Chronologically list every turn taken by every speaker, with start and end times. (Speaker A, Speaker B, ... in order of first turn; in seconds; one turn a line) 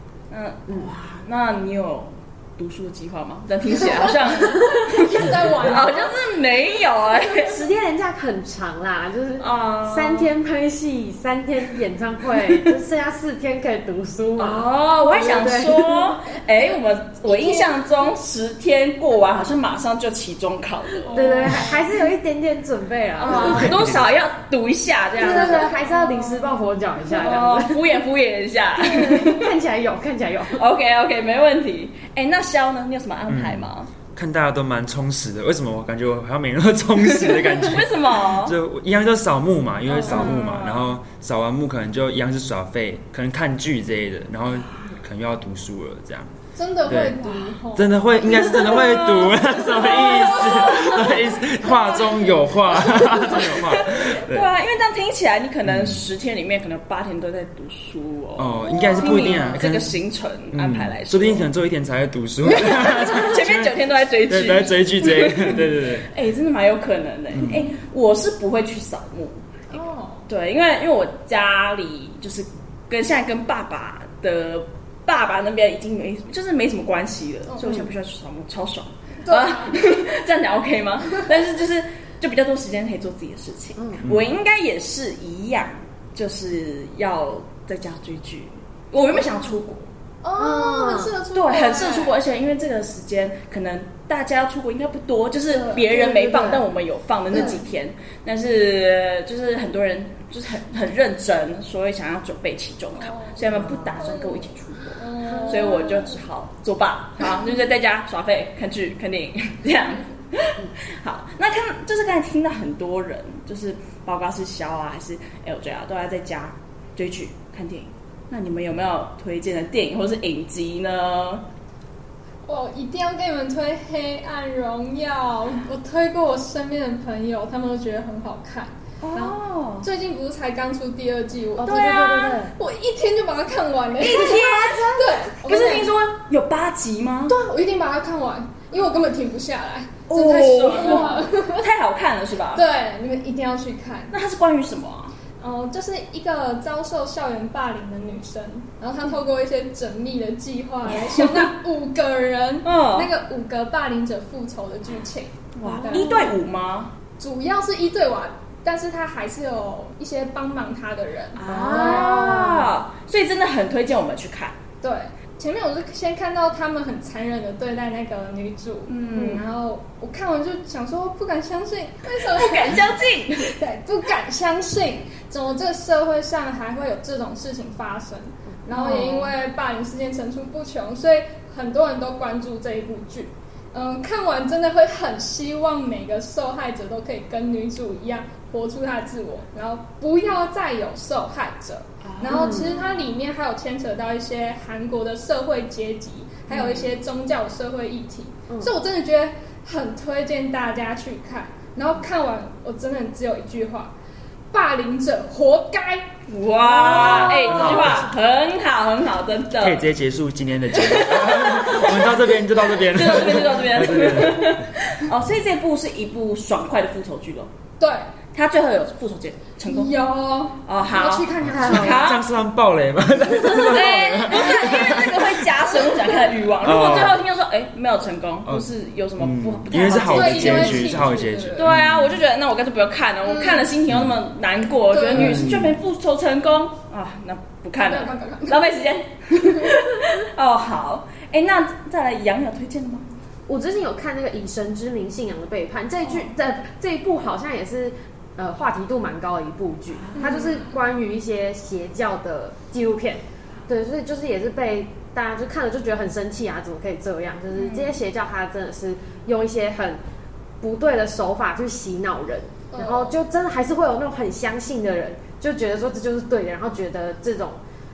Speaker A: 0.3-7.7
Speaker B: 3.8-4.0
Speaker C: 3.8-6.2
Speaker B: 7.1-16.1
Speaker A: 9.4-10.3
Speaker A: 14.4-21.7
Speaker C: 17.3-17.8
Speaker C: 21.1-21.8
Speaker B: 21.1-23.8
Speaker A: 23.2-26.6
Speaker D: 23.3-24.1
Speaker B: 25.2-28.0
Speaker A: 27.1-29.5
Speaker B: 28.8-30.6
Speaker A: 30.5-33.9
Speaker D: 33.3-46.3
Speaker A: 37.0-38.5
Speaker C: 39.9-40.3
Speaker A: 40.0-41.0
Speaker C: 46.6-48.9
Speaker D: 46.9-54.5
Speaker A: 48.7-51.0
Speaker C: 49.9-50.9
Speaker C: 51.6-52.0
Speaker A: 52.9-61.5
Speaker C: 53.0-53.3
Speaker D: 55.6-56.0
Speaker D: 58.4-60.0
Speaker D: 60.5-66.1
Speaker A: 62.5-89.9
Speaker D: 67.3-67.7
Speaker C: 69.7-70.3
Speaker C: 77.5-77.8
Speaker C: 79.2-79.8
Speaker C: 81.0-81.3
Speaker B: 83.8-84.0
Speaker D: 84.0-84.3
Speaker C: 90.2-92.2
Speaker B: 90.4-91.2
Speaker A: 91.3-121.5
Speaker C: 95.5-95.9
Speaker B: 95.8-96.7
Speaker C: 103.0-103.4
Speaker B: 103.5-104.0
Speaker C: 104.0-106.1
Speaker B: 105.2-106.1
Speaker C: 122.5-135.9
Speaker A: 129.0-129.9
Speaker B: 131.6-132.5
Speaker A: 134.0-137.4
Speaker B: 134.1-135.1
Speaker C: 137.3-141.7
Speaker A: 140.1-142.7
Speaker C: 142.5-144.2
Speaker A: 144.1-145.2
Speaker C: 145.4-156.3
Speaker A: 150.9-151.3
Speaker A: 152.6-153.1
Speaker A: 155.6-156.9
Speaker C: 157.2-162.7
Speaker A: 161.3-164.6
Speaker B: 161.5-162.0
Speaker C: 164.8-172.9
Speaker A: 168.9-169.4
Speaker A: 172.2-173.6
Speaker C: 173.4-203.9
Speaker A: 178.7-179.3
Speaker A: 192.0-192.9
Speaker B: 192.3-193.0
Speaker A: 196.5-196.9
Speaker B: 198.5-198.8
Speaker C: 204.5-206.1
Speaker A: 206.3-209.9
Speaker C: 206.7-207.8
Speaker D: 206.8-208.1
Speaker D: 209.6-214.7
Speaker A: 210.7-217.5
Speaker C: 217.8-218.1
Speaker A: 218.3-220.0
Speaker C: 219.7-222.2
Speaker A: 220.6-222.3
Speaker D: 221.4-225.8
Speaker B: 221.6-222.1
Speaker A: 223.3-243.1
Speaker C: 224.3-224.8
Speaker D: 226.6-227.2
Speaker D: 228.5-232.2
Speaker C: 229.8-231.7
Speaker C: 233.2-233.7
Speaker D: 233.9-234.2
Speaker C: 234.9-235.3
Speaker D: 235.1-235.8
Speaker C: 237.8-238.7
Speaker B: 243.5-260.0
Speaker A: 246.0-246.3
Speaker A: 249.9-250.7
Speaker A: 257.5-258.0
Speaker B: 260.6-267.6
Speaker C: 262.7-263.1